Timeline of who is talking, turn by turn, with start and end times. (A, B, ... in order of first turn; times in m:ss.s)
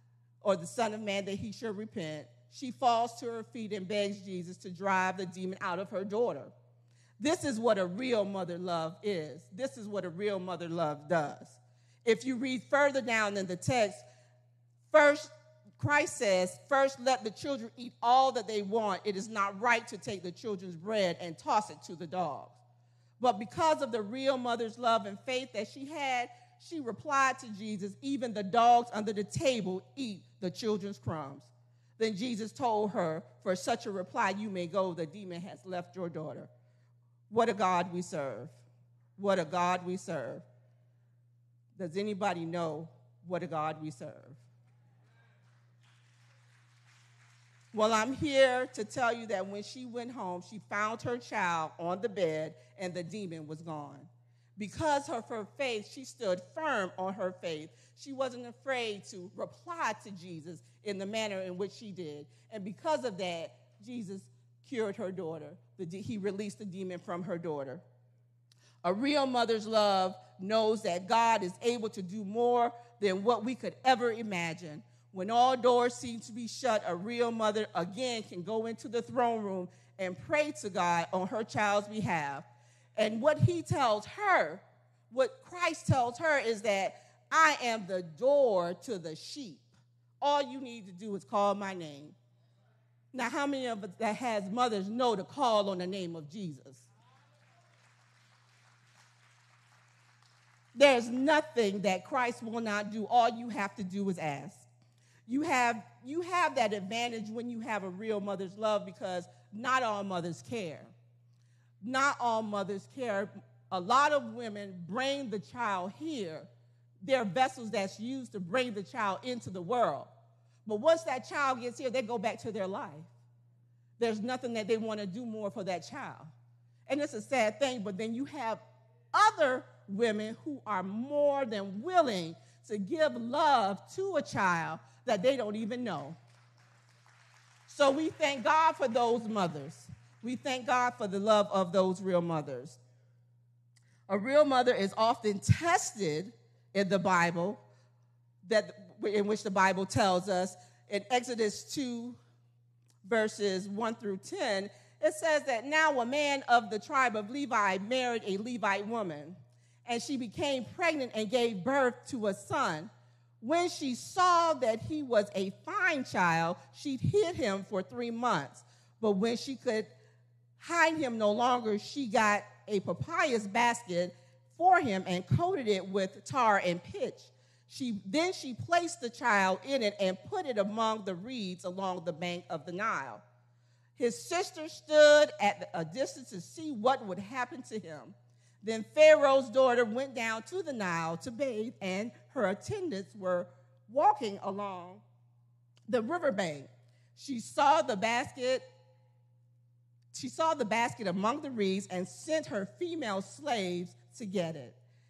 0:00.4-0:06.5 A
0:07.2-0:14.0 A
0:14.9-0:22.6 A
0:23.2-0:36.5 A
0:37.3-0:38.5 A
0:39.2-0:40.4 A
0:41.8-0:44.4 A
0:47.7-1:07.8 A
1:08.8-1:22.4 A
1:23.0-1:29.7 A
1:30.2-1:32.1 A
1:33.1-1:36.8 A
1:40.7-1:44.7 A
1:45.3-1:50.9 A
1:51.8-1:56.5 A
1:57.0-2:00.1 A
2:00.6-2:03.1 A
2:04.0-2:06.3 A
2:06.9-2:08.6 A
2:09.1-2:16.2 A
2:17.7-2:22.8 A
2:24.1-2:27.6 A
2:28.4-2:32.2 A
2:33.0-2:42.9 A
2:43.4-2:49.9 A
2:50.6-3:03.2 A
3:04.0-3:15.0 A
3:15.9-3:18.6 A
3:20.1-3:24.8 A